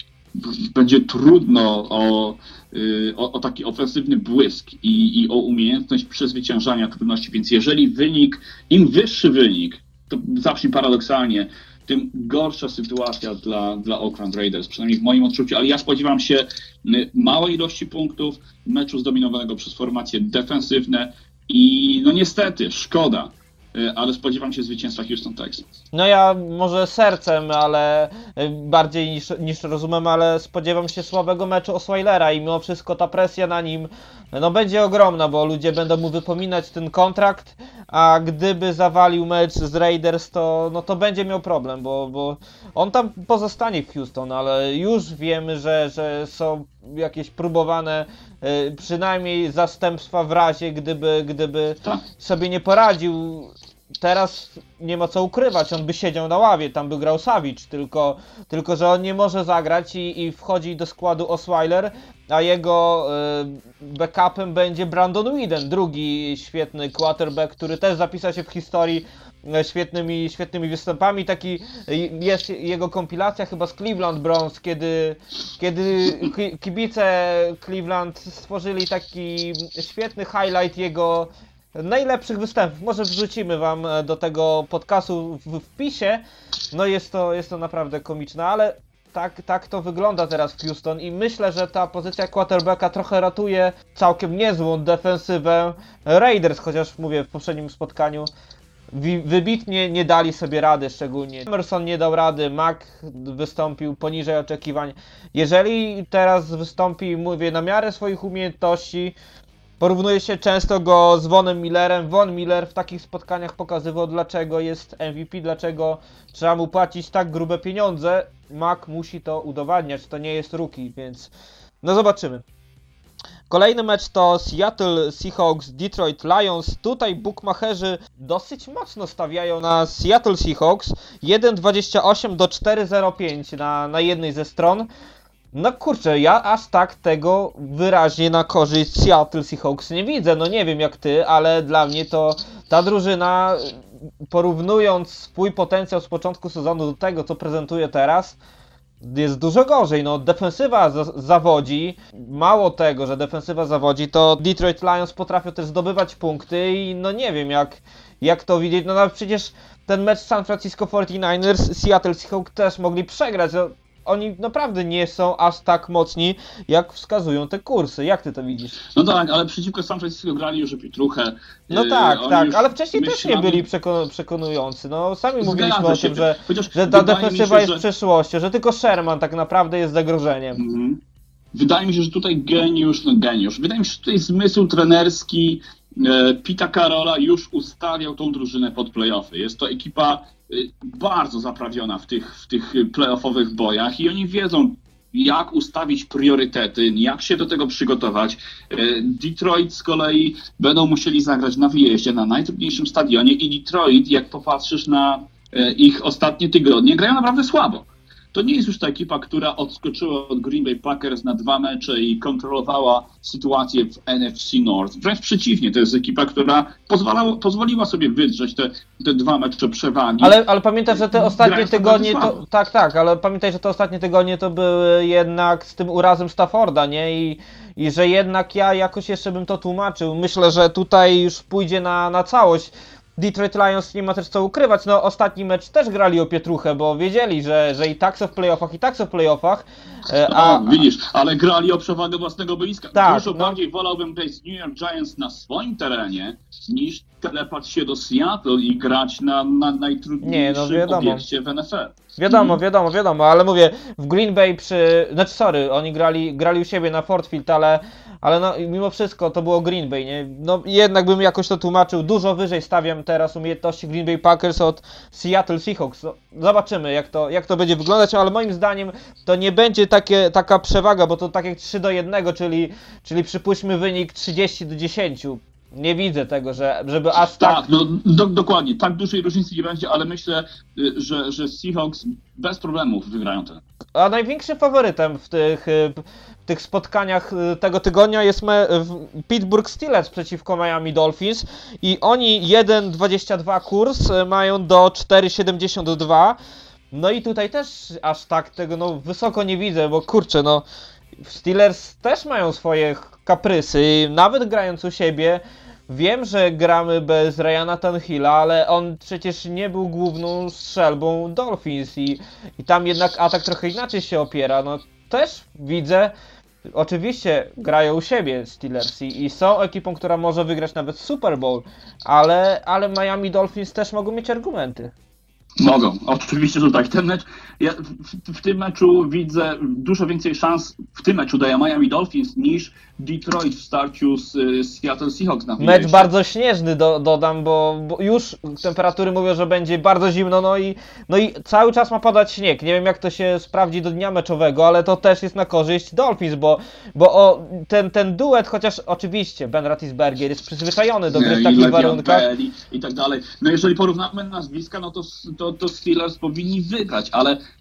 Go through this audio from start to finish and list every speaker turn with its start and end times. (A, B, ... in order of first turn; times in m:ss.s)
0:00.3-0:25.6 A
0:25.9-1:38.3 B
1:38.9-1:49.2 B
1:49.8-2:01.3 B
2:01.8-2:02.4 B
2:03.5-2:14.9 B
2:15.5-2:28.4 B
2:29.0-2:48.8 B
2:48.8-2:53.6 A
2:51.7-3:00.6 B
2:55.4-2:57.8 A
3:00.6-3:01.0 A
3:01.5-3:40.4 A
3:40.2-4:00.7 B
3:40.9-3:42.4 A
4:00.3-4:12.6 A
4:02.9-4:03.6 B
4:10.2-4:11.2 B
4:12.2-4:37.6 B
4:37.3-4:43.6 A
4:43.9-4:56.4 B
4:56.9-5:00.6 B
5:01.2-5:16.1 B
5:16.7-5:24.9 B
5:25.6-5:36.1 A
5:35.6-5:52.2 B
5:51.1-5:57.4 A